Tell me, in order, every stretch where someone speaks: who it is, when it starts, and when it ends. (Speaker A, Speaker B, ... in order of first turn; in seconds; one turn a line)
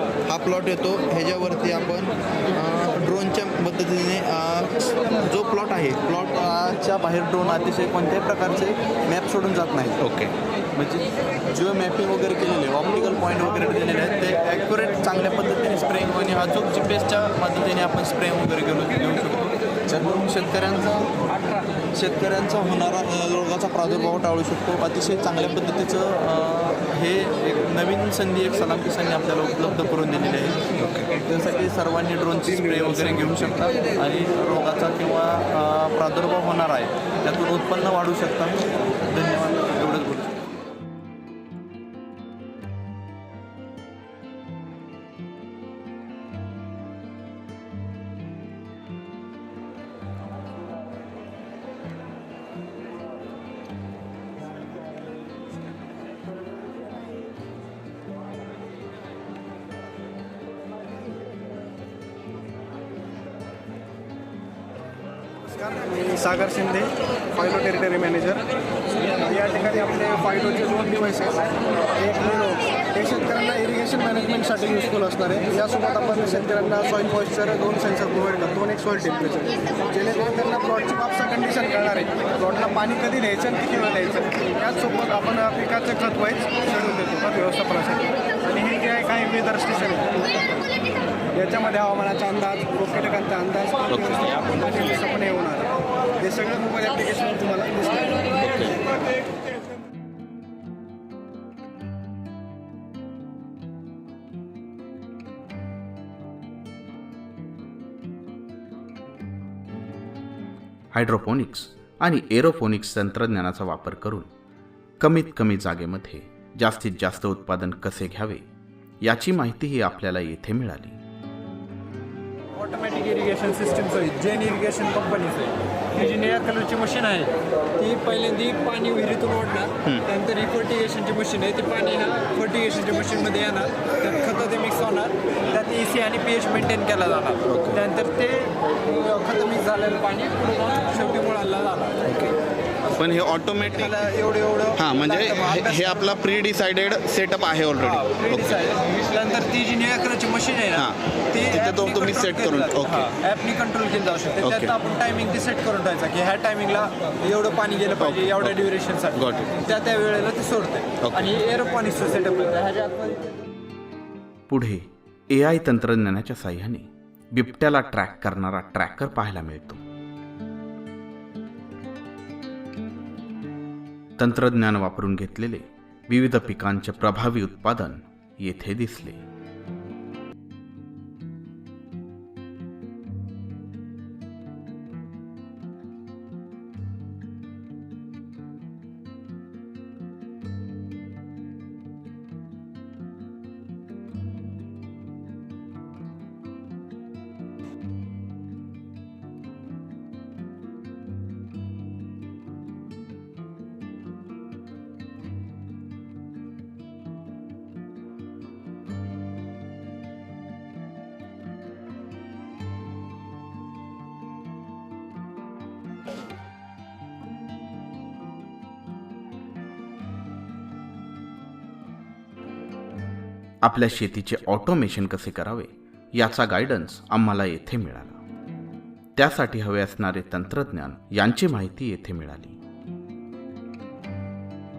Speaker A: 0.3-21.1
Speaker A: 21.9-40.4
Speaker B: 30.8-31.1
Speaker C: 65.5-68.4
Speaker C: 69.1-90.2
Speaker C: 91.3-98.4
Speaker B: 93.9-94.4
Speaker B: 98.4-98.7
Speaker D: 110.9-114.3
Speaker D: 115.0-118.4
Speaker D: 119.0-121.0
Speaker E: 122.5-142.0
Speaker B: 137.4-137.8
Speaker B: 142.0-142.3
Speaker B: 142.9-143.9
Speaker E: 143.8-146.1
Speaker B: 144.8-148.6
Speaker E: 147.8-163.2
Speaker B: 150.7-153.1
Speaker B: 154.4-154.7
Speaker B: 158.0-159.5
Speaker B: 161.0-161.3
Speaker D: 164.5-169.8
Speaker D: 174.2-179.2
Speaker D: 223.6-228.2
Speaker D: 229.2-232.6